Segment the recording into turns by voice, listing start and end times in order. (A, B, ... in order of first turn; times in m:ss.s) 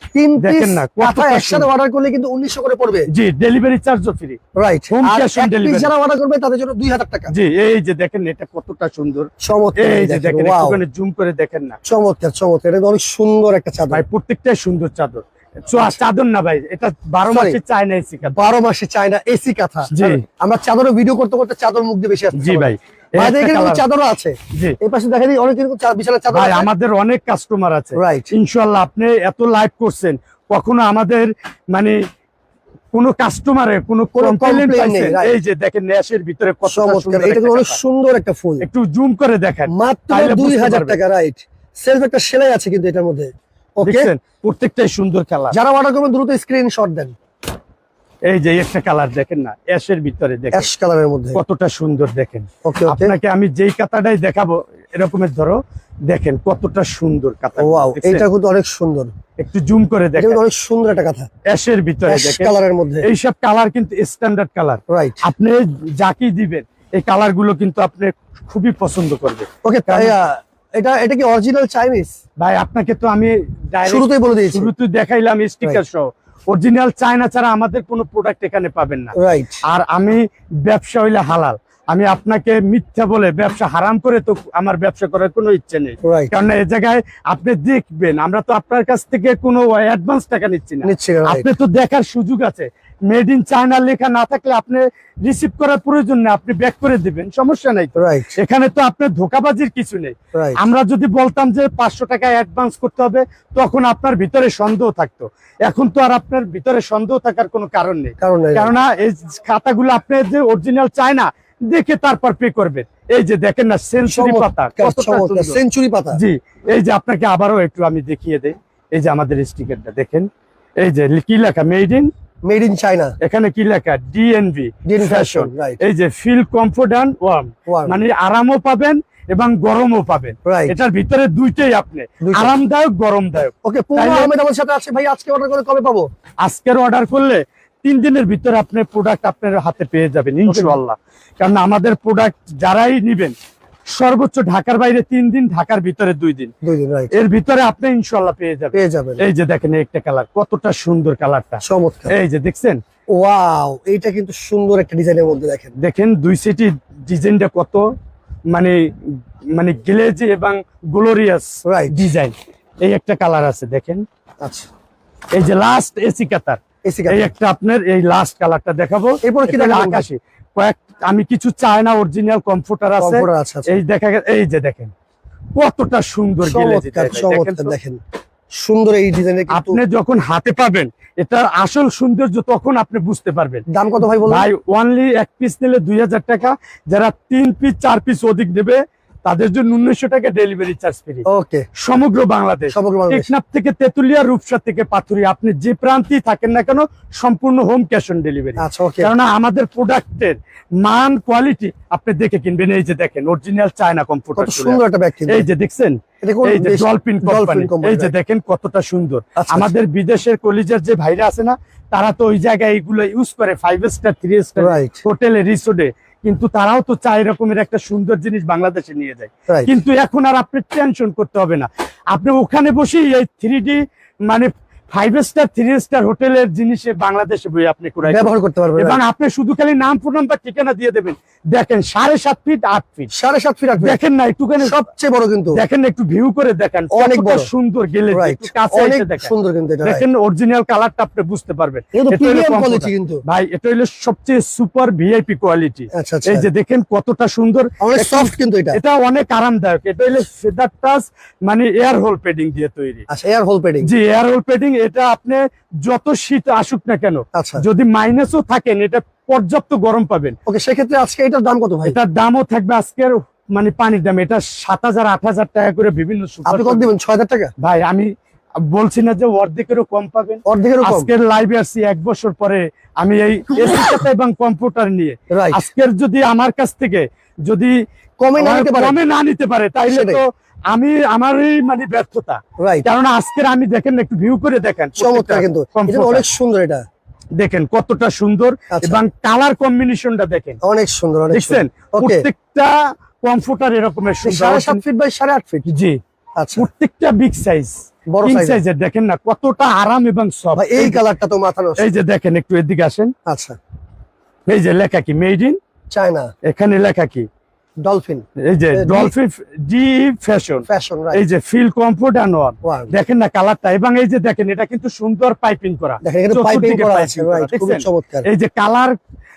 0:00.2-0:03.1 A
0:00.4-0:01.7 B
0:03.1-0:04.4 B
0:04.6-0:07.3 A
0:04.9-0:05.9 B
0:07.3-0:11.8 B
0:09.4-0:10.8 A
0:11.8-0:14.0 A
0:13.9-0:18.4 B
0:17.3-0:17.6 A
0:18.3-0:26.7 A
0:19.9-0:20.2 B
0:22.4-0:23.8 B
0:26.3-0:32.0 B
0:28.0-0:28.3 A
0:32.9-0:37.8 B
0:34.2-0:35.4 A
0:36.7-0:38.6 A
0:38.6-0:41.0 B
0:39.7-0:44.1 A
0:43.8-0:45.6 B
0:45.5-0:47.1 A
0:48.3-0:50.7 B
0:50.5-0:51.4 A
0:51.4-0:55.6 B
0:52.6-0:53.2 A
0:56.1-0:58.2 B
0:57.6-0:59.1 A
0:59.4-1:00.4 B
1:00.2-1:01.3 A
1:01.5-1:10.2 B
1:02.1-1:03.1 A
1:04.9-1:05.2 A
1:09.6-1:12.2 A
1:12.4-1:19.1 B
1:13.8-1:14.7 A
1:19.2-1:19.6 A
1:19.7-1:55.6 B
1:26.0-1:26.3 A
1:30.8-1:31.5 A
1:38.0-1:38.3 A
1:48.2-1:48.7 A
1:54.0-1:56.2 A
1:56.1-2:00.3 B
2:00.8-2:02.1 B
2:02.5-2:03.1 A
2:03.2-2:14.3 B
2:04.9-2:05.8 A
2:07.7-2:08.0 A
2:10.5-2:10.8 A
2:12.2-2:12.5 A
2:13.6-2:16.1 A
2:16.4-2:23.3 B
2:20.5-2:20.8 A
2:23.9-2:26.5 B
2:26.6-2:27.1 A
2:27.1-2:32.8 B
2:28.7-2:29.2 A
2:31.6-2:32.2 A
2:33.2-2:35.7 A
2:35.8-2:37.8 B
2:39.5-2:44.0 B
2:41.7-2:42.0 A
2:44.4-2:44.7 A
2:45.3-2:54.9 B
2:46.9-2:47.3 A
2:49.2-2:50.1 A
2:53.0-2:53.7 A
2:55.6-2:57.7 B
2:56.4-2:58.0 A
2:58.6-2:59.8 A
2:59.5-3:03.7 B
3:03.7-3:04.5 A
3:04.3-3:11.3 B
3:11.3-3:11.7 A
3:11.8-3:53.1 B
3:12.7-3:13.3 A
3:18.6-3:19.1 A
3:24.4-3:25.5 A
3:26.2-3:28.1 A
3:29.4-3:29.7 A
3:34.6-3:35.0 A
3:48.1-3:49.0 A
3:53.1-3:54.0 A
3:53.8-3:54.8 B
3:54.6-3:55.6 A
3:55.5-3:59.3 B
3:56.9-3:57.5 A
3:58.1-4:00.0 A
3:59.8-4:13.0 B
4:01.9-4:03.2 A
4:05.9-4:06.5 A
4:07.8-4:08.8 A
4:13.1-4:13.9 A
4:13.8-4:20.4 B
4:17.4-4:17.6 A
4:20.5-4:22.0 A
4:21.8-4:26.9 B
4:26.5-4:27.5 A
4:27.6-4:28.1 B
4:28.7-4:37.8 B
4:30.5-4:31.1 A
4:35.3-4:35.6 A
4:38.2-4:39.0 A
4:38.4-4:46.2 B
4:39.9-4:40.2 A
4:42.6-4:42.9 A
4:45.0-4:46.8 A
4:47.4-4:50.6 B
4:48.7-4:49.0 A
4:50.6-4:52.3 A
4:51.3-4:54.8 B
4:54.2-4:55.7 A
4:55.7-4:56.0 B
4:56.4-4:56.7 A
4:56.6-5:01.0 B
4:58.1-4:58.6 A
5:00.5-5:01.8 A
5:01.8-5:03.1 B
5:03.3-5:03.6 A
5:04.5-5:05.6 B
5:05.9-5:06.3 A
5:06.4-5:07.3 B
5:07.8-5:09.1 A
5:08.4-5:19.0 B
5:10.7-5:11.2 A
5:12.6-5:12.9 A
5:16.0-5:18.3 A